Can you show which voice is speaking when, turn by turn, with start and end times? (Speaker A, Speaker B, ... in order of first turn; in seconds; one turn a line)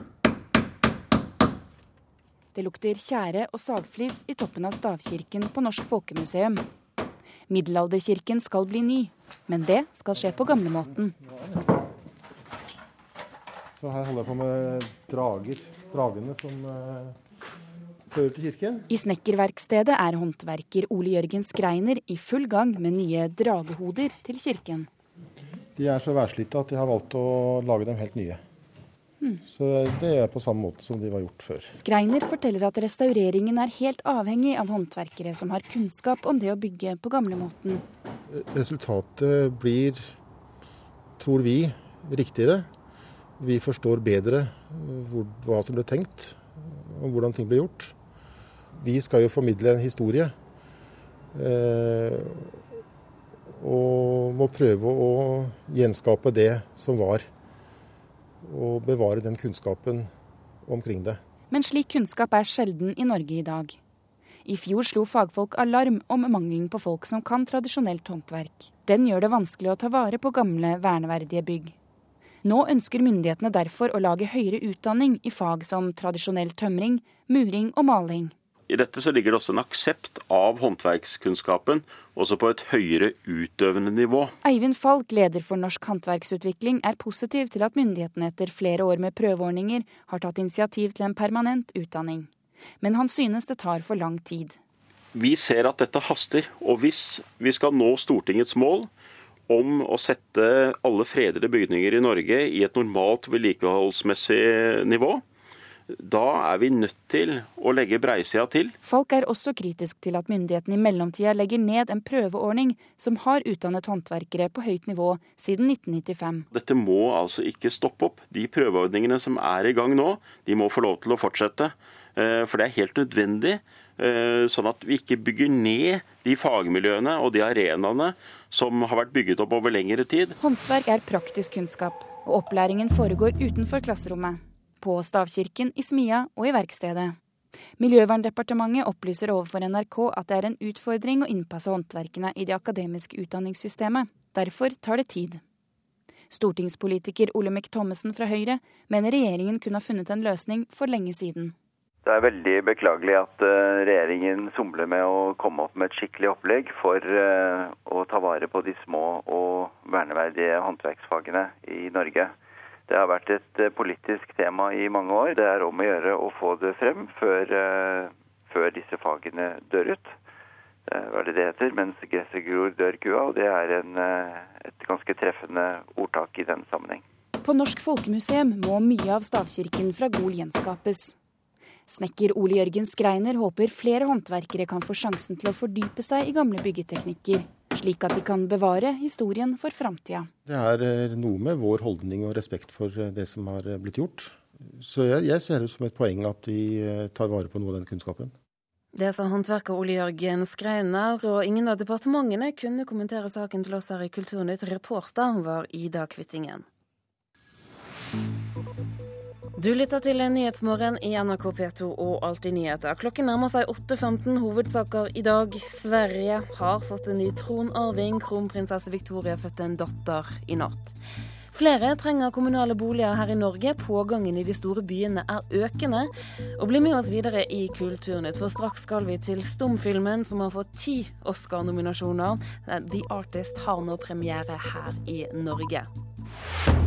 Speaker A: 2.5-6.6
Speaker A: 7.5-11.2
Speaker B: 11.2-11.7
Speaker B: 13.8-17.2
Speaker B: 18.1-18.9
Speaker A: 18.9-24.9
Speaker B: 25.8-28.4
Speaker B: 29.5-31.7
Speaker A: 31.7-37.8
Speaker B: 38.3-40.0
Speaker B: 41.2-42.7
Speaker B: 43.4-47.9
Speaker B: 48.8-50.3
Speaker B: 51.3-52.5
Speaker B: 53.6-57.3
Speaker B: 58.4-60.1
Speaker B: 60.6-61.2
Speaker A: 61.5-63.8
Speaker A: 64.5-71.8
Speaker A: 72.4-78.3
Speaker C: 78.7-84.3
Speaker A: 84.4-92.3
Speaker A: 92.8-94.5
Speaker C: 95.2-98.9
Speaker C: 99.5-105.2
Speaker C: 105.9-108.7
Speaker A: 108.8-116.5
Speaker C: 116.5-130.3
Speaker A: 130.4-137.2
Speaker A: 137.8-145.4
Speaker A: 146.3-151.6
Speaker D: 152.1-162.3
Speaker D: 162.9-170.0
Speaker D: 170.9-177.0
Speaker A: 177.4-181.2
Speaker A: 181.9-190.3
Speaker B: 190.5-198.3
Speaker E: 198.9-206.7
Speaker E: 209.6-221.0
Speaker E: 221.5-235.9